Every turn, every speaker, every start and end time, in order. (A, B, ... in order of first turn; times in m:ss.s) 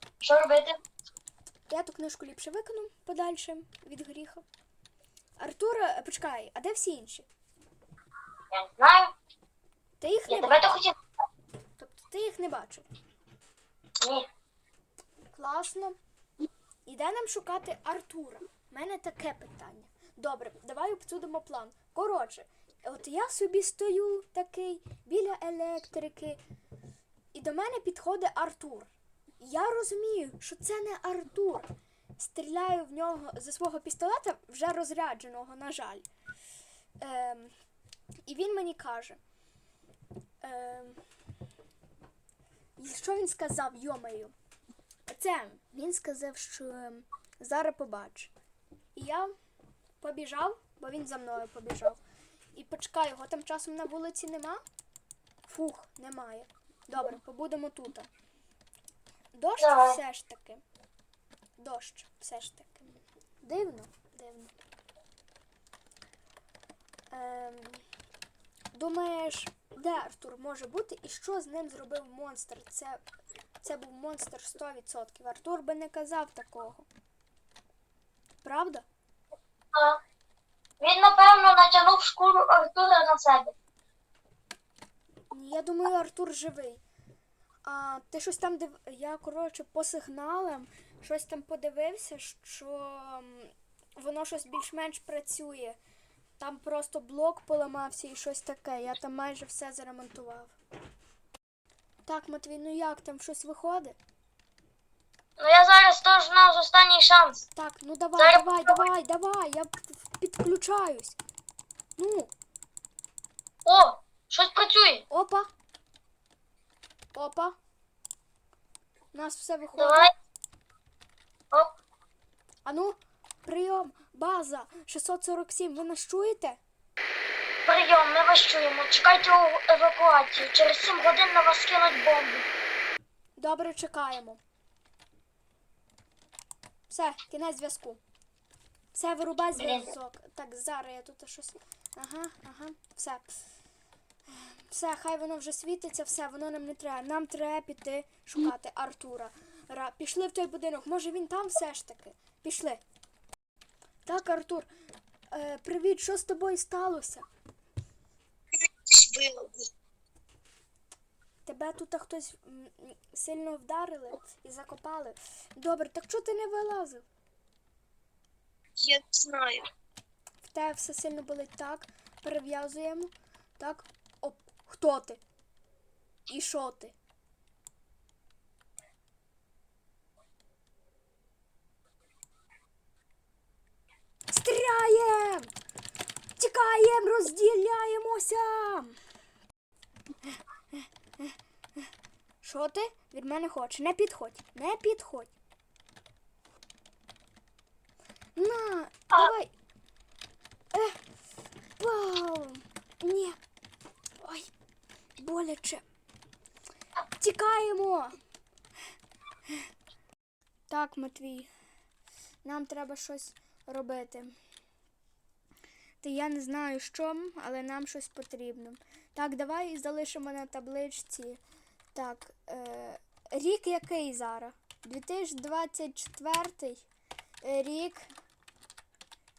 0:00.2-0:00.8 A
0:01.7-0:04.4 B
0:05.4-0:07.3 B
0:08.5-0:09.1 A
0:10.0-0:10.6 B
0:10.3-0:11.0 A
0:11.8-0:12.9 B
0:14.0-0:14.3 A
0:15.3-0:16.0 B
0:16.9-0:26.4 B
0:27.3-0:36.0 B
0:37.0-0:37.5 B
0:38.3-0:39.2 B
0:40.4-0:41.0 B
0:42.8-0:44.3 B
0:45.1-0:48.3 B
0:49.0-0:49.3 B
0:50.0-0:52.0 B
0:52.6-0:54.6 B
0:55.5-0:58.1 B
0:59.3-1:00.6 B
0:59.6-1:00.0 A
1:01.6-1:04.5 B
1:07.1-1:07.8 B
1:08.7-1:13.0 B
1:13.6-1:16.9 B
1:18.4-1:18.9 B
1:19.7-1:20.0 A
1:20.8-1:23.5 A
1:25.3-1:26.8 B
1:27.6-1:35.8 B
1:36.4-1:40.6 B
1:42.1-1:44.0 B
1:45.4-1:47.5 A
1:47.5-1:51.2 B
1:48.2-1:48.9 A
1:52.0-1:52.3 B
1:53.6-1:55.0 A
1:55.1-1:55.5 B
1:57.2-1:57.6 B
1:59.1-2:00.1 B
1:59.8-2:00.1 A
2:02.6-2:06.6 B
2:07.7-2:12.5 A
2:13.4-2:14.4 B
2:16.9-2:18.0 B
2:18.9-2:23.3 B
2:19.6-2:19.9 A
2:24.3-2:32.8 B
2:34.0-2:34.7 B
2:35.3-2:37.3 B
2:38.5-2:39.7 C
2:41.4-2:47.0 B
2:48.8-2:49.7 C
2:50.4-2:55.2 B
2:56.3-2:57.0 B
3:04.3-3:05.5 B
3:06.4-3:09.0 B
3:10.7-3:11.3 B
3:12.4-3:15.3 B
3:18.4-3:19.5 B
3:20.7-3:21.0 B
3:21.8-3:23.4 B
3:24.2-3:24.5 B
3:25.2-3:25.8 B
3:27.2-3:28.2 B
3:30.7-3:31.5 B
3:32.4-3:34.3 B
3:36.0-3:41.4 B
3:41.9-3:46.8 B
3:47.4-3:48.1 B